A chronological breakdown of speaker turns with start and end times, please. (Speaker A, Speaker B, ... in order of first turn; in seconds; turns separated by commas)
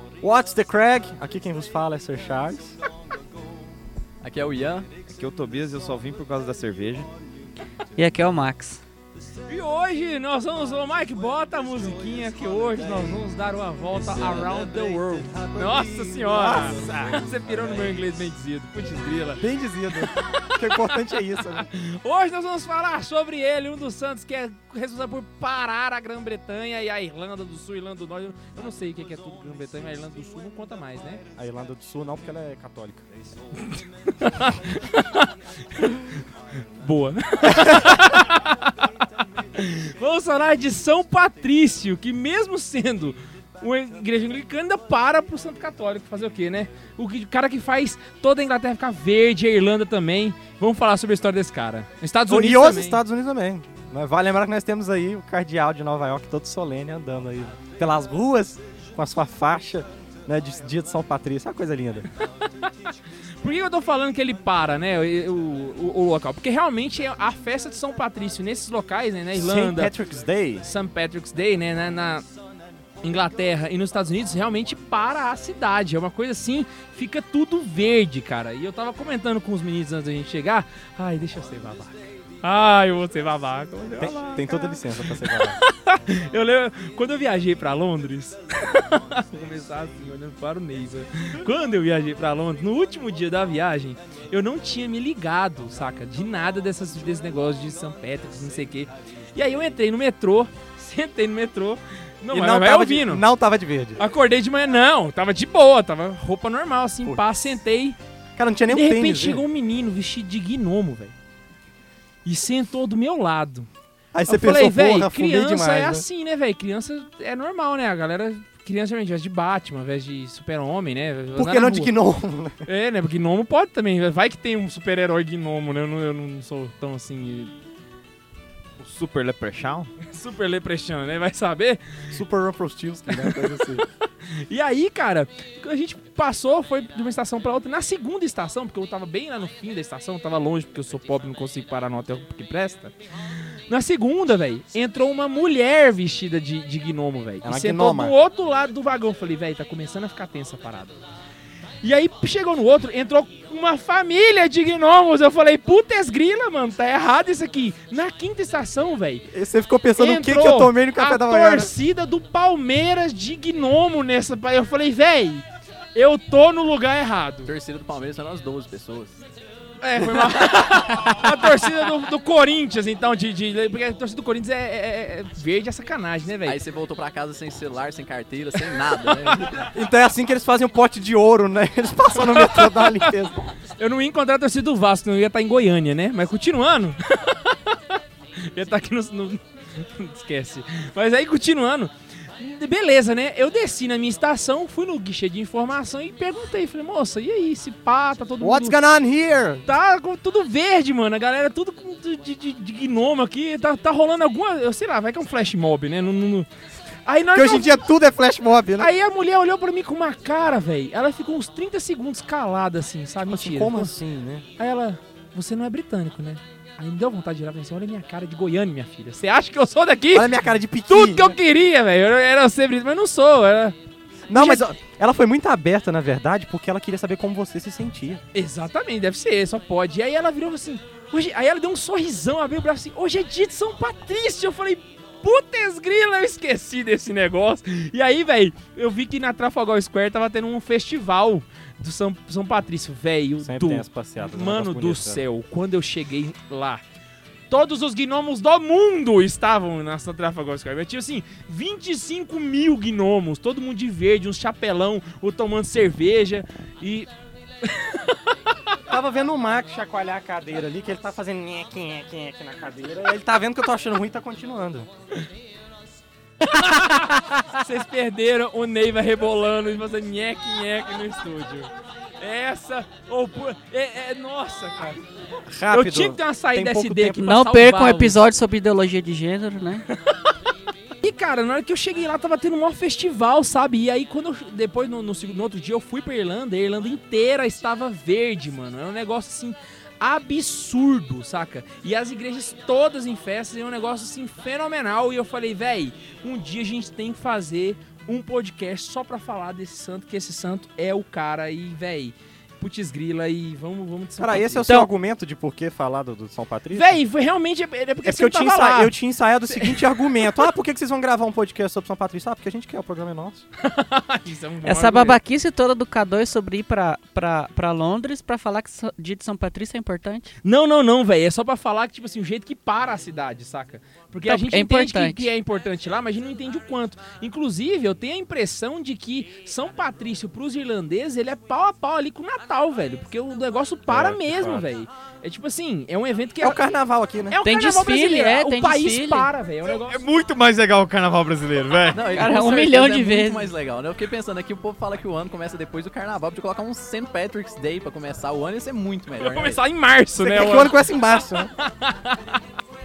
Speaker A: 0.2-2.8, Speaker B: 4.2-4.9, Speaker C: 5.1-7.1, Speaker D: 8.0-8.8, Speaker E: 9.5-31.2, Speaker A: 13.9-18.0, Speaker A: 19.4-21.7, Speaker A: 31.4-33.4, Speaker E: 33.7-53.0, Speaker A: 52.3-62.1, Speaker E: 62.2-62.7, Speaker E: 63.4-69.9, Speaker A: 69.3-70.7, Speaker E: 70.6-72.2, Speaker E: 73.0-103.2, Speaker A: 84.0-85.6, Speaker A: 102.3-104.0, Speaker E: 104.0-108.0, Speaker A: 107.0-107.4, Speaker A: 108.3-109.4, Speaker E: 108.7-111.1, Speaker E: 112.2-113.7, Speaker A: 114.1-116.0, Speaker E: 114.3-122.0, Speaker A: 121.3-122.6, Speaker E: 122.6-127.5, Speaker C: 128.8-129.9, Speaker E: 130.0-132.2, Speaker A: 132.1-133.8, Speaker E: 133.1-150.9, Speaker A: 147.4-148.1, Speaker E: 151.8-159.3, Speaker A: 159.3-161.7, Speaker E: 160.0-167.5, Speaker B: 167.4-169.2, Speaker E: 169.8-176.6, Speaker B: 176.4-179.5, Speaker E: 178.7-179.6, Speaker A: 179.5-183.4, Speaker E: 182.2-198.8, Speaker A: 198.4-199.6, Speaker E: 199.7-206.5, Speaker E: 207.0-207.8, Speaker A: 207.3-208.9, Speaker E: 208.8-213.9, Speaker A: 213.2-214.4, Speaker E: 214.6-223.8, Speaker A: 220.1-221.4, Speaker A: 224.3-228.2, Speaker E: 224.3-224.6, Speaker E: 228.3-246.8, Speaker A: 243.4-245.2, Speaker E: 247.5-257.1, Speaker E: 257.6-258.2, Speaker A: 258.9-264.9, Speaker E: 266.5-275.0, Speaker A: 275.4-277.3, Speaker E: 275.7-278.2, Speaker D: 277.1-279.8, Speaker E: 281.0-304.7, Speaker A: 304.2-307.0, Speaker E: 306.7-308.9, Speaker A: 308.0-313.4, Speaker E: 309.5-310.4, Speaker E: 313.6-315.2, Speaker D: 314.6-320.4, Speaker E: 320.4-336.6, Speaker D: 324.2-325.3, Speaker A: 333.9-334.6, Speaker A: 336.4-337.4, Speaker E: 337.3-340.0, Speaker D: 337.4-339.3, Speaker C: 339.8-342.1, Speaker B: 341.9-349.6, Speaker D: 342.1-343.5, Speaker E: 349.2-352.4, Speaker A: 350.2-351.5